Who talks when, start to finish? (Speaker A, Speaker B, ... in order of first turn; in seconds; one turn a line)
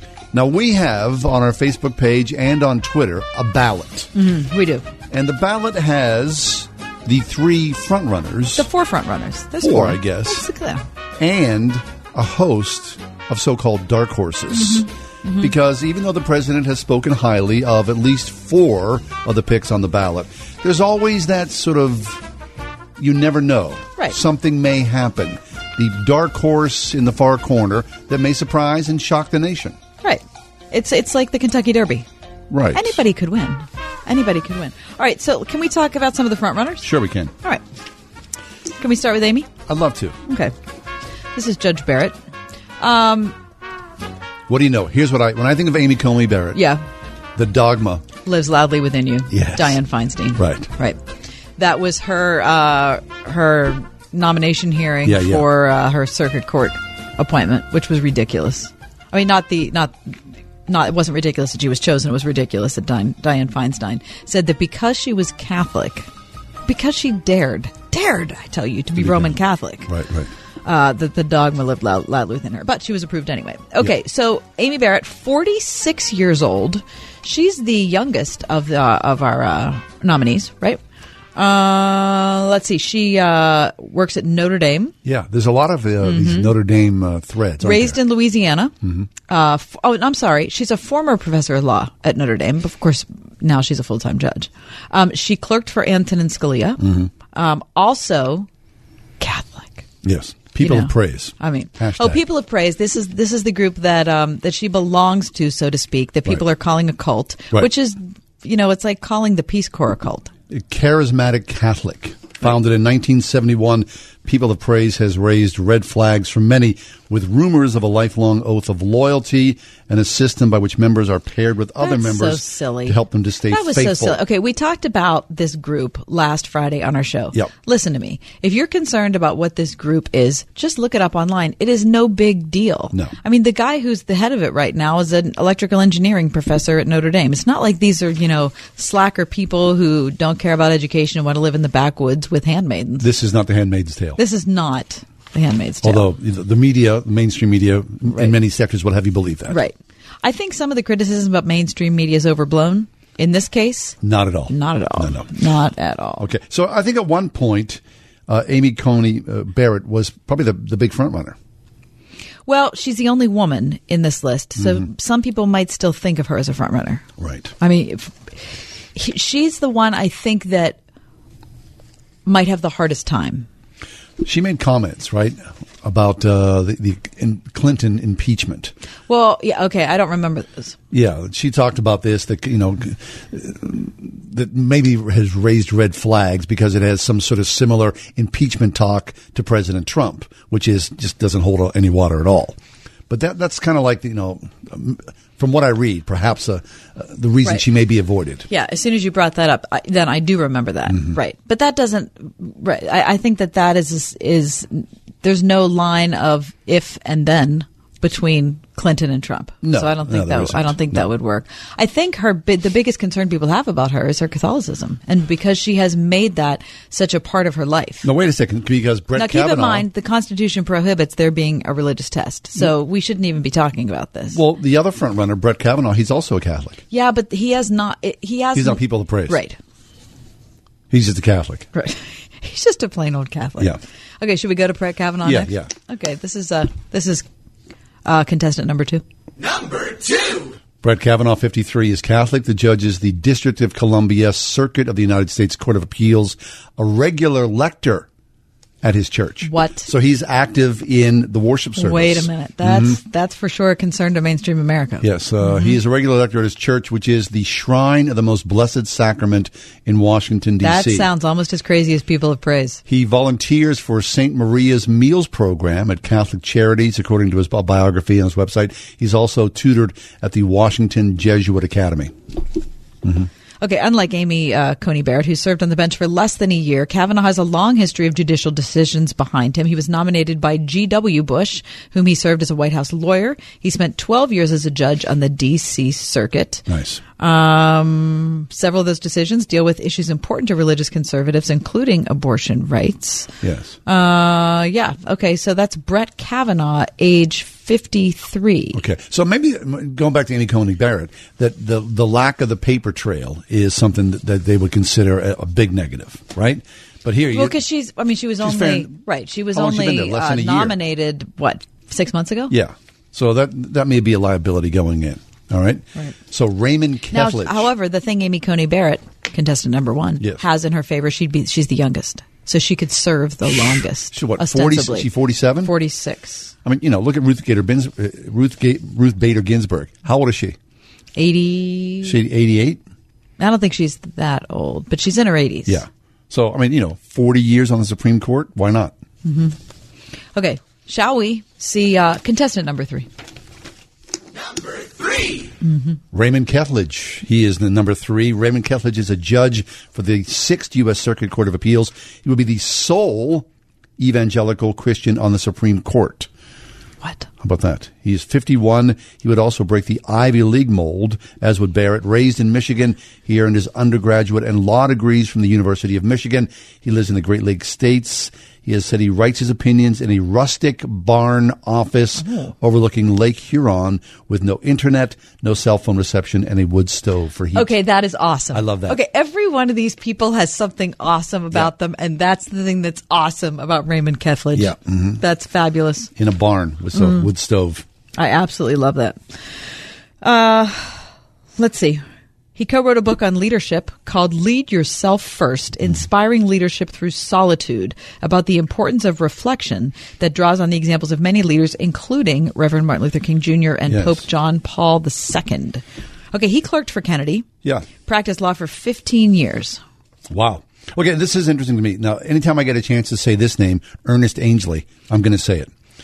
Speaker A: 0.3-4.1
Speaker B: 4.1-4.8
Speaker A: 5.1-8.7
Speaker B: 8.5-10.8
Speaker A: 9.6-10.4
Speaker A: 11.2-14.9
Speaker B: 14.5-15.5
Speaker A: 15.4-22.2
Speaker A: 23.0-29.8
Speaker B: 30.0-32.0
Speaker A: 32.5-33.0
Speaker B: 32.7-36.9
Speaker A: 36.8-37.3
Speaker B: 38.8-39.5
Speaker A: 39.7-40.2
Speaker B: 40.3-40.5
Speaker B: 41.3-42.2
Speaker B: 42.8-43.4
Speaker A: 44.5-46.6
Speaker B: 46.5-46.8
Speaker A: 47.4-48.0
Speaker B: 48.2-51.0
Speaker A: 49.3-49.8
Speaker A: 50.4-50.7
Speaker B: 51.6-60.1
Speaker A: 55.0-55.5
Speaker B: 60.7-66.1
Speaker B: 66.7-69.9
Speaker A: 69.0-70.3
Speaker B: 70.6-80.8
Speaker B: 81.3-84.9
Speaker A: 85.0-88.0
Speaker B: 86.0-86.5
Speaker B: 87.6-88.7
Speaker A: 88.8-89.1
Speaker B: 89.3-96.8
Speaker A: 96.8-97.1
Speaker B: 97.3-98.5
Speaker B: 99.2-99.8
Speaker A: 100.0-102.2
Speaker B: 100.6-110.3
Speaker A: 110.5-124.2
Speaker B: 121.8-123.0
Speaker B: 123.5-143.1
Speaker A: 143.0-144.2
Speaker B: 144.2-146.1
Speaker A: 145.8-149.6
Speaker B: 148.1-148.3
Speaker B: 149.5-154.0
Speaker A: 154.0-155.3
Speaker B: 154.5-156.2
Speaker A: 156.2-161.3
Speaker B: 162.5-167.1
Speaker A: 164.6-164.8
Speaker A: 167.2-167.5
Speaker B: 167.6-168.2
Speaker B: 168.9-170.8
Speaker B: 172.2-173.5
Speaker A: 174.2-178.7
Speaker B: 179.1-180.7
Speaker A: 180.9-192.6
Speaker A: 193.1-198.5
Speaker B: 198.5-218.1
Speaker A: 200.9-201.2
Speaker A: 209.6-211.0
Speaker A: 218.0-219.9
Speaker B: 219.1-224.4
Speaker A: 224.3-226.8
Speaker B: 226.9-229.6
Speaker A: 228.5-229.4
Speaker A: 230.9-231.7
Speaker B: 231.7-237.2
Speaker A: 235.2-235.7
Speaker B: 238.0-239.0
Speaker A: 240.8-248.1
Speaker A: 248.8-253.0
Speaker B: 249.4-249.9
Speaker B: 251.8-255.8
Speaker A: 255.0-261.1
Speaker B: 260.6-262.8
Speaker A: 262.9-272.1
Speaker A: 273.0-273.3
Speaker B: 273.6-286.6
Speaker A: 286.7-287.0
Speaker B: 287.2-293.3
Speaker A: 293.4-293.8
Speaker B: 293.9-298.8
Speaker A: 298.7-307.6
Speaker B: 307.3-312.5
Speaker A: 308.4-308.9
Speaker A: 309.5-310.8
Speaker A: 312.5-317.7
Speaker B: 317.1-325.1
Speaker A: 324.1-325.7
Speaker B: 325.6-326.5
Speaker A: 326.6-330.6
Speaker B: 331.1-332.2
Speaker A: 332.0-332.8
Speaker B: 333.4-335.8
Speaker A: 335.6-338.9
Speaker B: 339.2-339.6
Speaker B: 340.3-343.1
Speaker B: 345.6-346.0
Speaker A: 346.1-353.5
Speaker A: 354.0-356.3
Speaker B: 357.0-357.3
Speaker A: 357.4-377.7
Speaker B: 372.2-372.5
Speaker B: 377.5-386.1
Speaker A: 378.5-379.0
Speaker A: 384.5-385.2
Speaker A: 386.1-387.8
Speaker B: 386.9-387.3
Speaker B: 388.2-389.2
Speaker B: 390.2-391.0
Speaker B: 391.6-392.0
Speaker B: 392.6-407.5
Speaker A: 403.9-404.2
Speaker B: 408.0-409.8
Speaker A: 410.3-415.7